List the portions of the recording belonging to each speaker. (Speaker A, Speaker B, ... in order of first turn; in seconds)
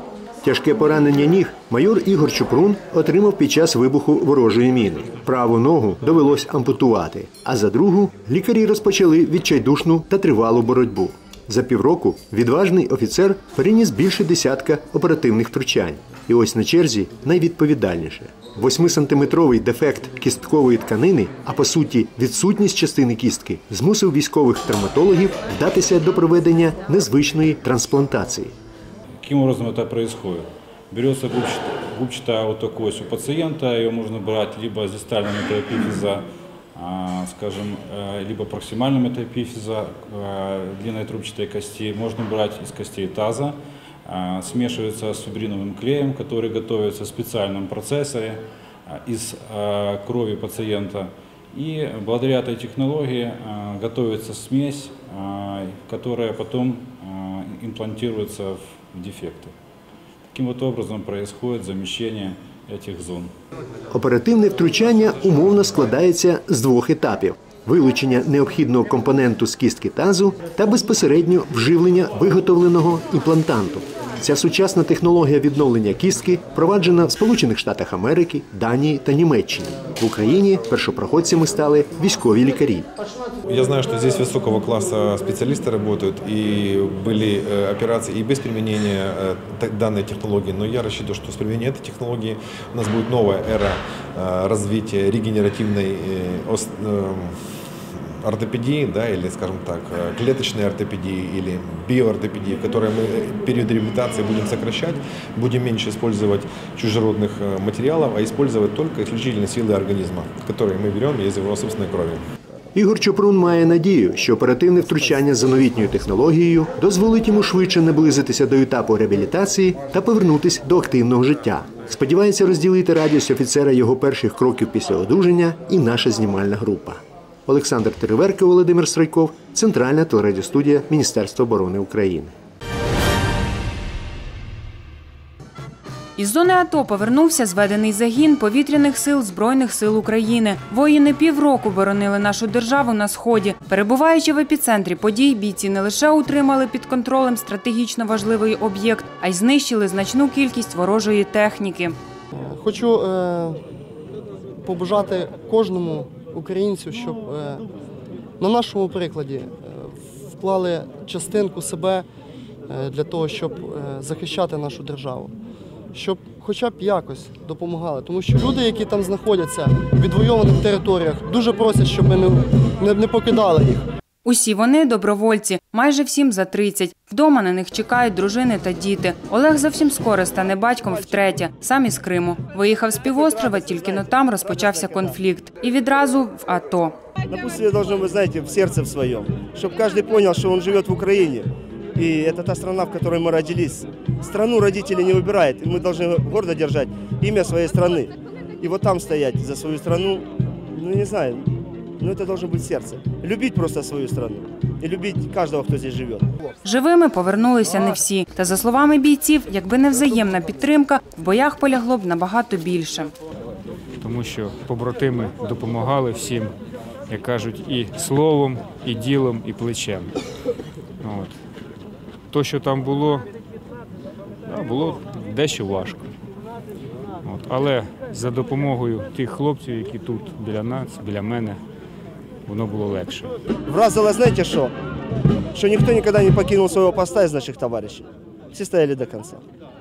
Speaker A: 0.4-28.5, 63.9-82.9, 112.7-132.3
Speaker B: 29.2-59.5, 60.3-63.3
Speaker C: 83.5-97.4, 98.2-112.2
Speaker D: 136.2-151.9, 174.2-187.0, 206.6-213.1
Speaker E: 152.3-153.6, 154.6-157.6, 158.4-162.1, 162.7-165.3, 165.9-173.8
Speaker F: 184.6-185.0, 187.3-201.4, 202.0-206.3, 233.7-234.7, 235.6-239.4
Speaker G: 214.0-216.5, 217.1-220.1, 221.0-221.4, 222.3-223.2, 224.5-226.1, 227.2-231.6, 232.5-233.3